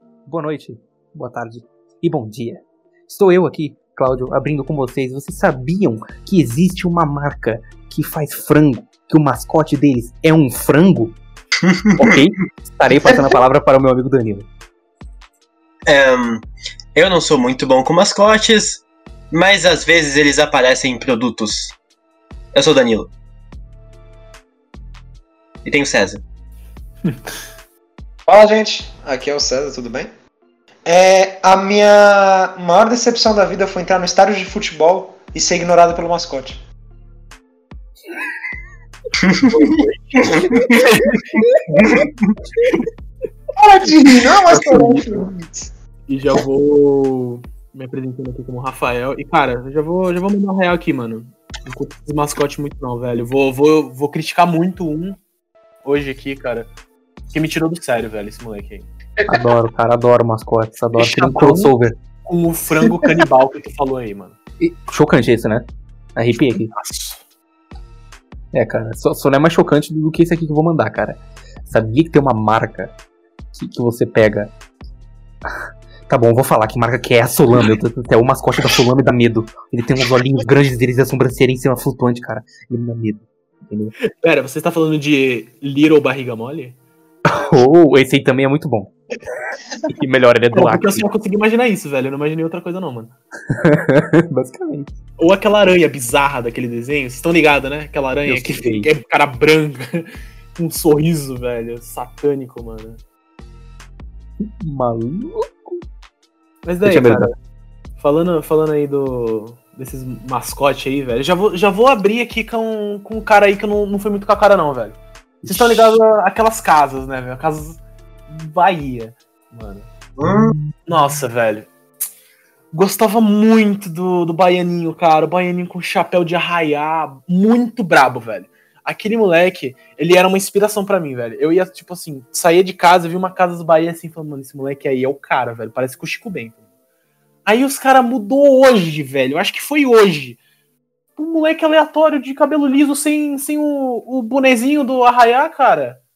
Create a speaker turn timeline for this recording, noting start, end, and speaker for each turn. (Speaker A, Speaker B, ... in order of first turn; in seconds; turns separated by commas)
Speaker A: 0.3-11.2, Speaker B: 11.6-12.2, Speaker A: 12.0-14.5, Speaker C: 12.9-13.3, Speaker B: 15.9-21.7, Speaker B: 22.5-23.1, Speaker B: 25.6-26.2, Speaker D: 27.0-27.4, Speaker C: 28.3-30.1, Speaker C: 30.9-36.6, Speaker B: 39.3-39.7, Speaker D: 39.5-41.6, Speaker C: 43.6-45.7, Speaker D: 44.5-45.1, Speaker D: 46.1-55.2, Speaker D: 55.8-56.7, Speaker D: 57.3-58.9, Speaker A: 59.3-62.0, Speaker D: 61.0-64.4, Speaker A: 64.6-66.7, Speaker D: 66.7-67.2, Speaker A: 68.5-72.9, Speaker A: 73.5-74.5, Speaker A: 75.5-83.9, Speaker D: 84.0-86.8, Speaker A: 87.3-88.9, Speaker A: 90.0-91.0, Speaker D: 90.5-93.1, Speaker A: 93.5-94.9, Speaker D: 95.2-103.0, Speaker A: 98.3-98.9, Speaker A: 104.4-105.8, Speaker D: 106.7-107.3, Speaker A: 106.8-107.3, Speaker D: 108.0-119.9, Speaker A: 115.4-115.9, Speaker B: 120.2-120.6, Speaker A: 120.3-120.6, Speaker D: 120.9-121.7, Speaker D: 122.7-136.6, Speaker D: 137.5-140.4, Speaker D: 141.2-146.0